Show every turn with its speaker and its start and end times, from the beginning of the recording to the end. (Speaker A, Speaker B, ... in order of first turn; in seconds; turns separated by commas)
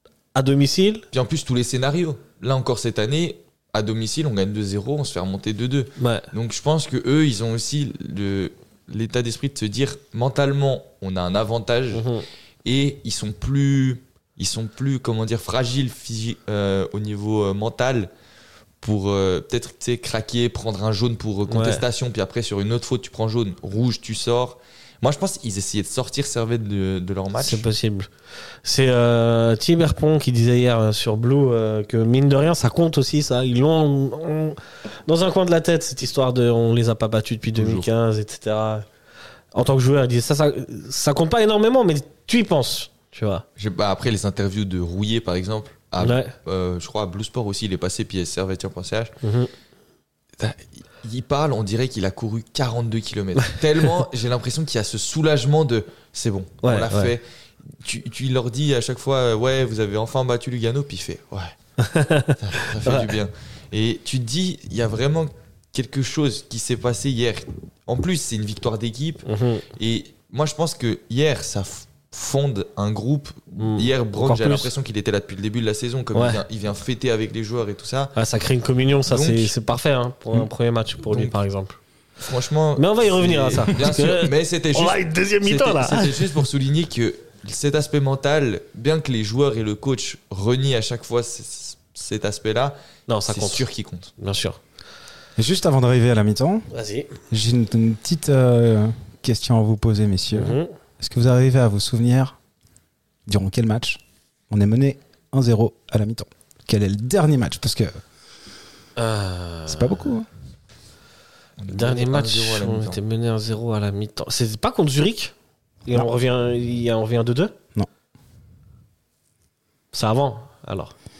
Speaker A: 0.3-1.1, Speaker B: 1.1-12.1, Speaker A: 6.0-6.3, Speaker A: 11.9-12.2, Speaker B: 12.6-18.1, Speaker B: 18.8-27.7, Speaker A: 21.5-21.8, Speaker A: 27.4-28.1, Speaker A: 28.6-38.9, Speaker B: 37.5-37.9, Speaker A: 39.5-43.4, Speaker B: 43.6-49.1, Speaker A: 46.0-46.3, Speaker A: 49.2-49.5, Speaker B: 50.4-57.2, Speaker A: 56.6-57.1, Speaker B: 57.8-61.5, Speaker A: 61.8-63.1, Speaker B: 62.4-78.1, Speaker A: 69.2-69.7, Speaker A: 73.6-74.7, Speaker A: 76.1-76.4, Speaker A: 78.2-81.8, Speaker B: 79.1-79.5, Speaker B: 81.1-81.3, Speaker B: 82.2-92.8, Speaker A: 82.8-86.3, Speaker A: 93.1-93.7, Speaker B: 93.3-94.1, Speaker A: 94.2-94.6, Speaker C: 95.4-96.7, Speaker A: 96.7-97.1, Speaker C: 97.3-102.3, Speaker A: 100.3-100.7, Speaker C: 103.2-108.0, Speaker A: 109.0-110.1, Speaker C: 109.7-110.3, Speaker B: 111.6-113.0, Speaker A: 111.7-115.3, Speaker A: 115.8-117.5, Speaker A: 119.9-120.9